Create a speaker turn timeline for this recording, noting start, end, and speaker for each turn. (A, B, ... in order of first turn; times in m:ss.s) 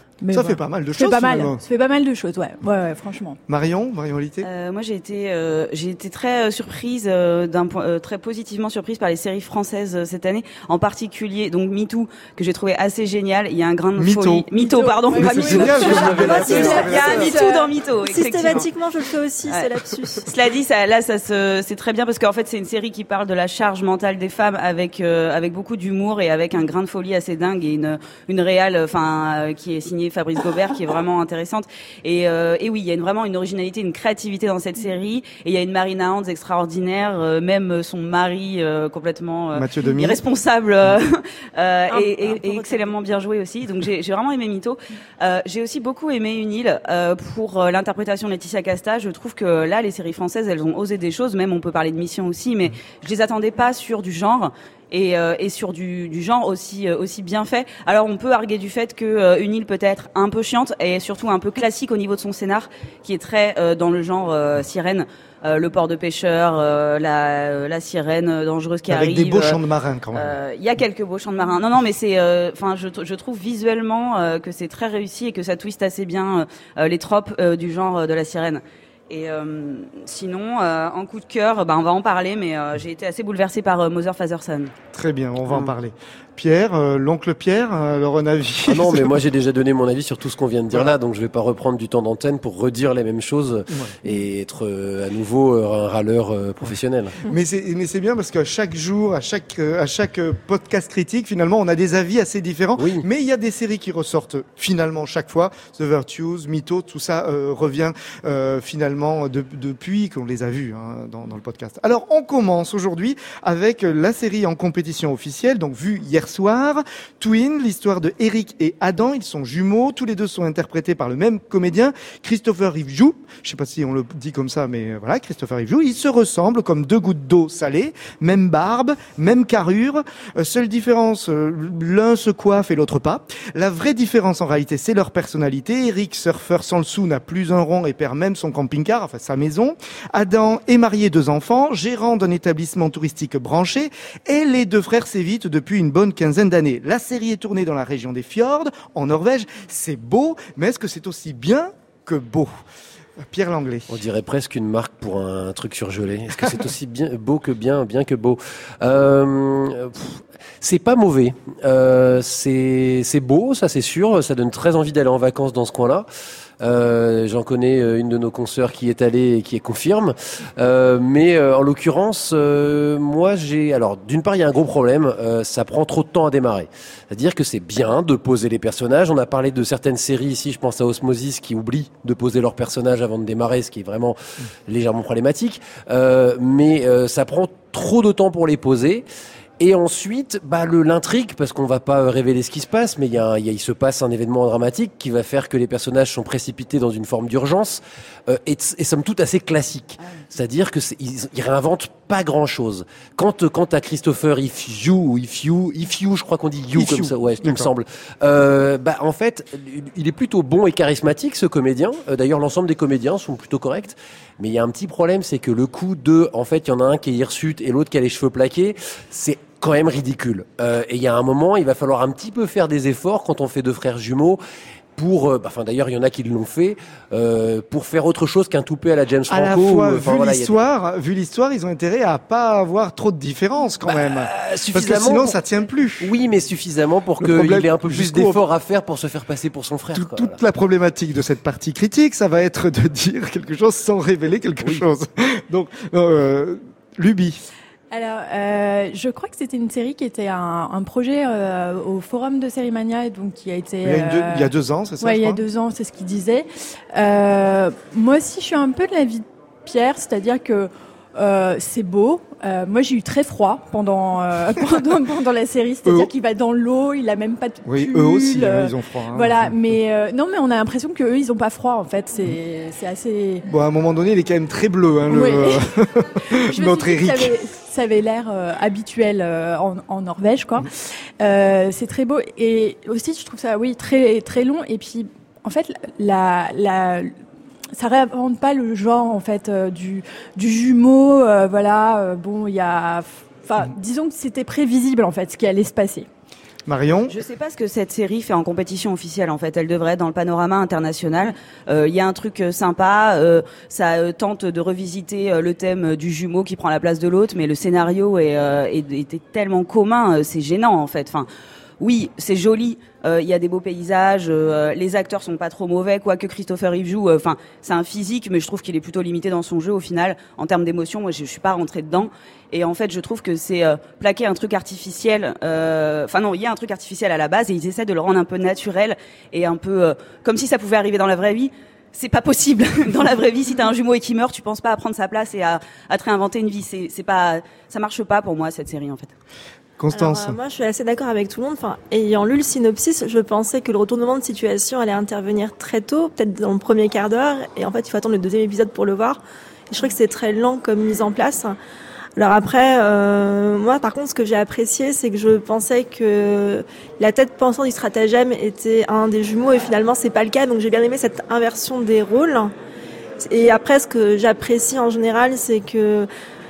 0:00.2-0:03.4 A
0:00.3-0:01.6 B
0:03.5-0:04.5 B
0:04.4-0:18.7 C
0:14.0-0:14.5 B
0:14.6-0:17.7 A
0:15.1-0:17.3 B
0:15.5-0:16.9 D
0:16.2-0:17.3 E
0:18.1-0:20.3 E
0:19.5-1:09.6 C
0:39.5-0:40.2 B
0:41.9-0:42.9 E
1:08.9-1:10.4 B
1:10.1-1:24.7 C
1:24.9-1:29.2 B
1:28.7-1:37.2 D
1:37.2-2:32.5 B
1:42.8-1:43.1 D
2:33.2-2:34.0 B
2:33.9-2:46.1 D
2:46.6-3:09.0 D
3:09.6-3:44.4 D
3:26.8-3:27.7 B
3:45.0-3:50.5 D
3:49.3-3:56.1 B
3:53.9-3:55.4 D
3:56.0-4:00.4 D
3:57.2-3:58.4 B
3:59.9-4:07.4 B
4:07.9-4:33.5 A
4:13.8-4:15.4 B
4:27.6-4:29.5 B
4:33.5-4:37.4 B
4:35.1-4:47.1 A
4:47.8-4:56.1 A
4:56.7-4:57.1 B
4:57.1-5:11.3 C
5:11.8-5:39.1 C
5:39.8-5:40.4 B
5:39.9-5:51.6 E
5:52.2-6:02.5 E
6:03.2-6:06.1 E